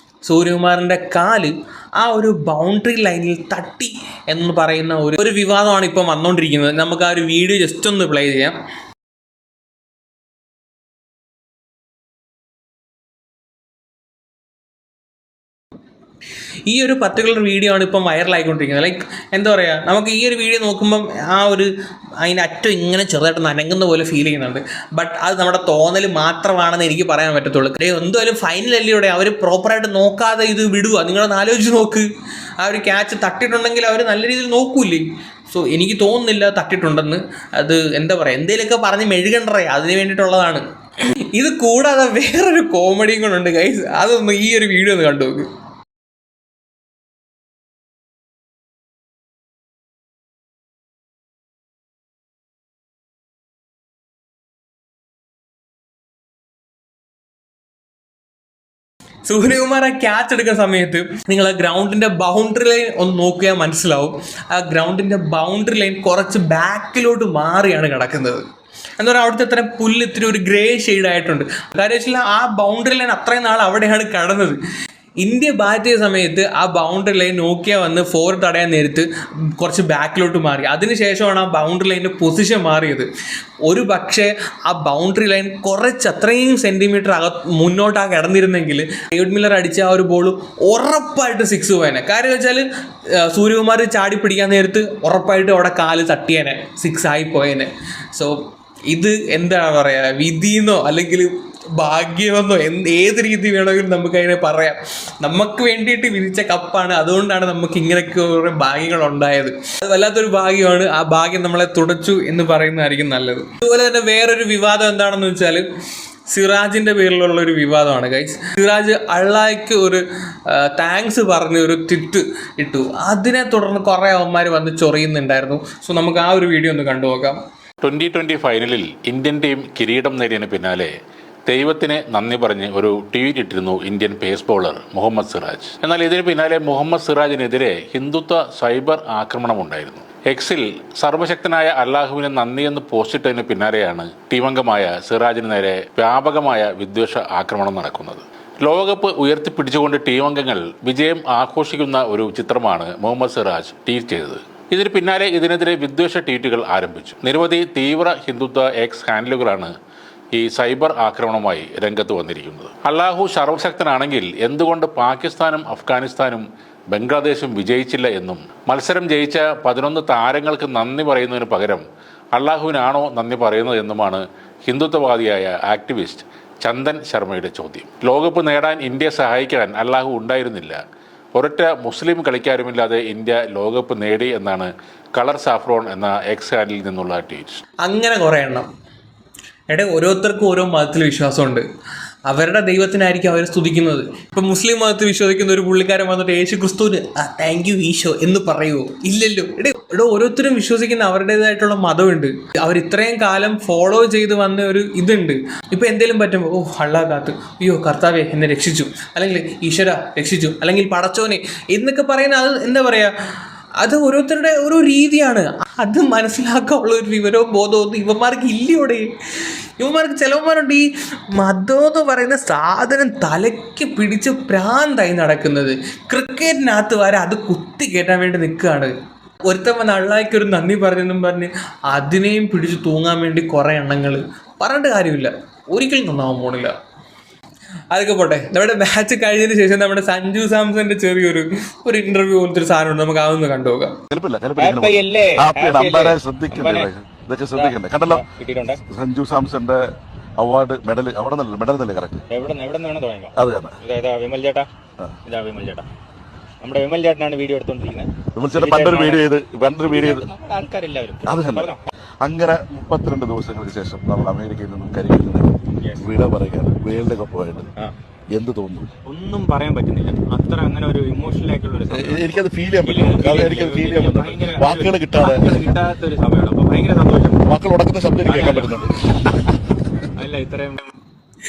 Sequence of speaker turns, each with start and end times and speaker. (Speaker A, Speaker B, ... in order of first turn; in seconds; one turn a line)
Speaker A: 0.2-8.5
Speaker A: 16.7-21.7
Speaker A: 22.2-32.0
Speaker A: 32.6-40.6
Speaker A: 41.3-45.5
Speaker A: 59.2-68.4
Speaker A: 69.0-74.6
Speaker A: 75.2-79.1
Speaker A: 79.6-83.1
Speaker A: 83.7-92.6
Speaker A: 93.3-98.3
Speaker A: 98.9-115.6
Speaker A: 116.3-127.4
Speaker B: 127.8-130.9
Speaker B: 131.5-159.7
Speaker B: 160.3-171.8
Speaker B: 172.3-180.8
Speaker B: 181.3-187.6
Speaker A: 187.8-188.7
Speaker A: 189.7-191.6
Speaker A: 192.3-213.1
Speaker A: 213.8-219.1
Speaker A: 219.8-228.9
Speaker A: 229.5-236.7
Speaker A: 237.9-243.9
Speaker C: 244.1-248.2
Speaker D: 244.6-246.9
Speaker D: 247.5-248.8
Speaker C: 248.8-249.8
Speaker C: 250.4-252.2
Speaker D: 252.3-254.7
Speaker C: 253.3-253.8
Speaker D: 255.3-255.9
Speaker D: 256.6-259.3
Speaker C: 258.4-260.3
Speaker D: 259.8-261.9
Speaker C: 261.2-267.7
Speaker D: 265.8-266.1
Speaker C: 268.3-268.9
Speaker D: 269.1-277.4
Speaker C: 271.9-275.7
Speaker C: 277.4-279.5
Speaker D: 278.2-278.8
Speaker D: 280.2-280.9